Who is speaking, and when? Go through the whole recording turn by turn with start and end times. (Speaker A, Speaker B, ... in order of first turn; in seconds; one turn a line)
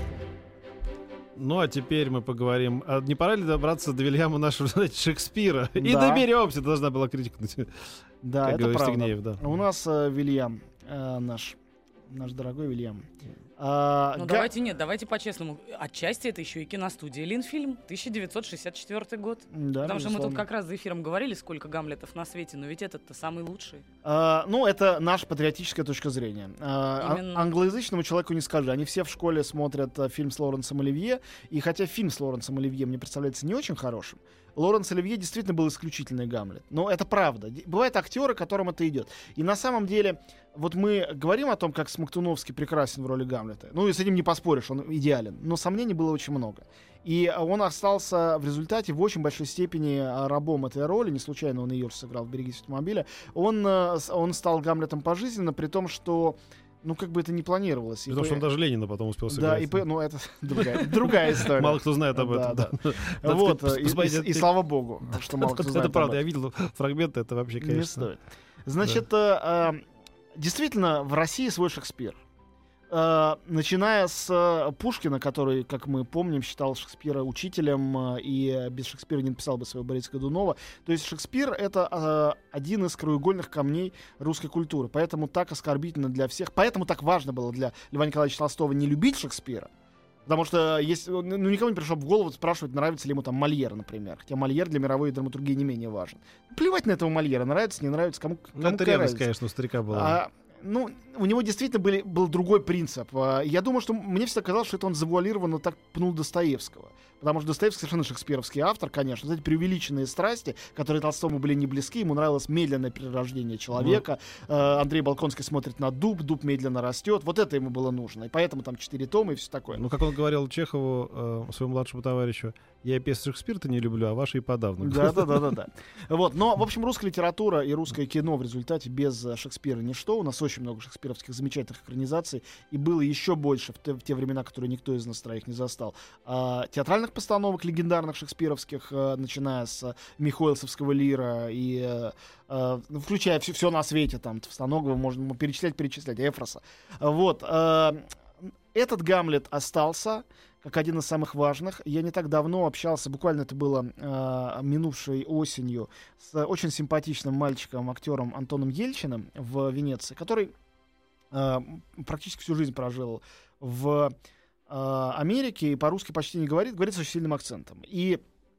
Speaker A: 1.4-7.7
Speaker B: 5.8-6.3
Speaker B: 8.2-11.6
Speaker A: 8.4-9.4
Speaker B: 12.1-13.1
Speaker B: 13.6-14.5
Speaker C: 14.2-23.9
Speaker B: 19.5-20.4
Speaker B: 24.0-58.4
Speaker C: 27.0-27.5
Speaker A: 58.1-59.8
Speaker B: 59.3-66.2
Speaker A: 60.5-64.5
Speaker A: 65.1-68.1
Speaker B: 67.6-69.8
Speaker B: 70.4-72.2
Speaker B: 72.9-89.7
Speaker B: 90.3-99.3
Speaker A: 98.6-100.2
Speaker B: 99.9-119.8
Speaker A: 113.8-114.0
Speaker A: 119.7-125.5
Speaker B: 124.8-148.1
Speaker B: 148.7-160.5
Speaker B: 161.3-164.1
Speaker B: 164.7-168.2